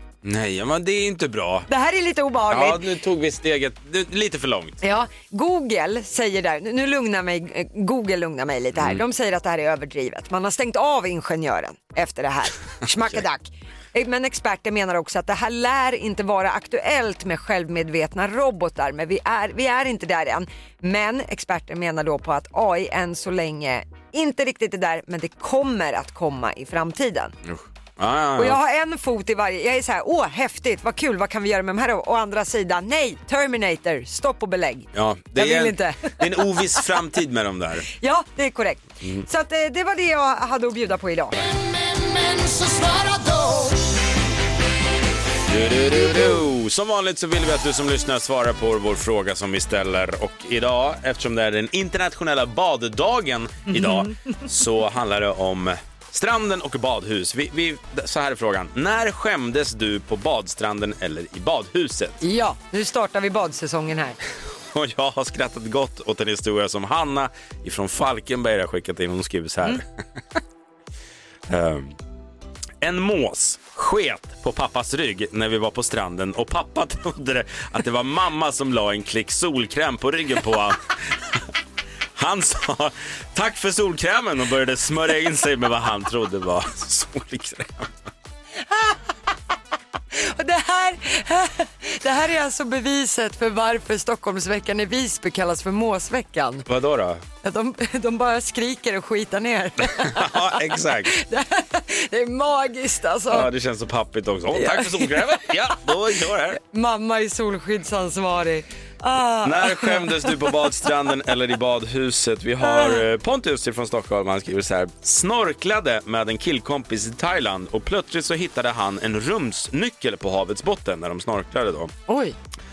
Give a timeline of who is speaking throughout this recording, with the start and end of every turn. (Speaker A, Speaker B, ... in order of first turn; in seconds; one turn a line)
Speaker A: 0.2-1.7
Speaker B: 1.7-2.8
Speaker A: 2.5-4.8
Speaker B: 4.8-27.3
Speaker A: 8.8-9.0
Speaker A: 27.5-28.6
Speaker B: 28.4-36.5
Speaker A: 34.9-37.9
Speaker B: 38.0-41.4
Speaker B: 42.9-43.7
Speaker A: 45.5-62.2
Speaker B: 53.7-54.1
Speaker B: 62.2-64.2
Speaker A: 64.7-69.8
Speaker A: 71.5-72.0
Speaker A: 72.8-80.8
Speaker A: 82.2-87.9
Speaker B: 88.7-89.0
Speaker B: 90.1-96.7
Speaker A: 96.7-97.2
Speaker B: 97.4-100.6
Speaker A: 100.0-101.2
Speaker B: 101.1-103.5
Speaker A: 103.3-106.6
Speaker B: 104.5-105.5
Speaker B: 106.6-110.3
Speaker A: 109.4-121.9
Speaker B: 112.6-113.0
Speaker B: 122.1-122.3